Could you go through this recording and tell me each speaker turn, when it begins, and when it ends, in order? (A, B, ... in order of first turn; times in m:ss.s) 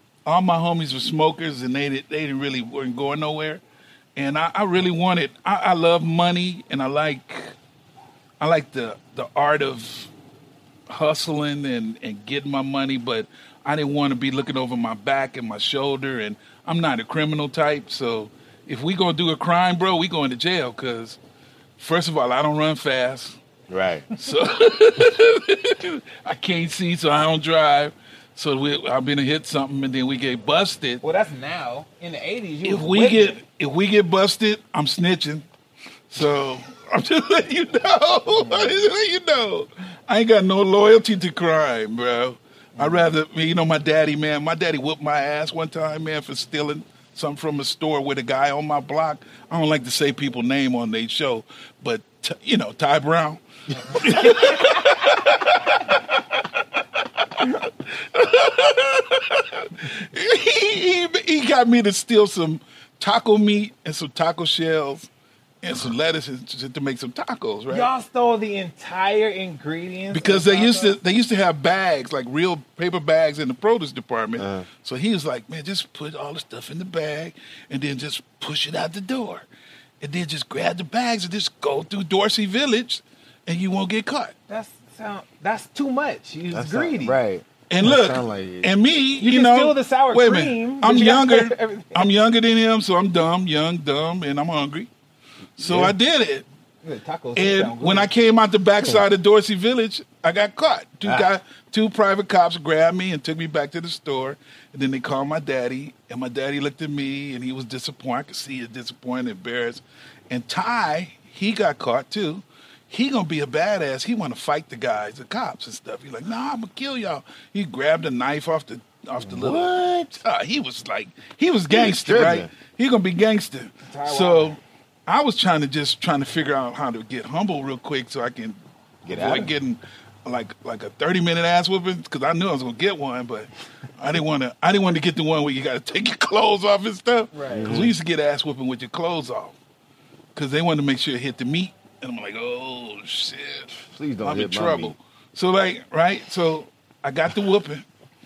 0:00.3-0:03.6 A
0:04.2-0:07.5 A
0:08.4-0:10.1 A
0:10.9-0:21.2 A
0:21.8-0:23.4 A
0:23.7-0:24.1 B
0:24.2-0:31.0 A
0:31.0-0:33.4 C
0:32.6-0:35.5 A
0:36.1-0:55.8 A
0:42.8-0:43.1 C
0:57.4-1:05.1 A
1:05.6-1:07.9 A
1:07.7-1:11.0 C
1:10.1-1:19.4 A
1:14.4-1:14.7 B
1:20.0-1:24.3 A
1:24.5-1:27.2 C
1:26.5-1:28.7 B
1:27.7-1:34.9 A
1:29.2-1:32.1 C
1:35.6-1:36.5 A
1:35.6-1:36.0 B
1:36.8-1:38.1 C
1:37.4-2:19.6 A
1:59.2-2:00.2 B
2:01.7-2:02.5 B
2:03.8-2:04.6 C
2:09.0-2:09.5 B
2:17.3-2:17.8 C
2:17.5-2:18.0 B
2:20.4-2:23.7 A
2:23.8-2:25.0 B
2:24.2-2:27.8 A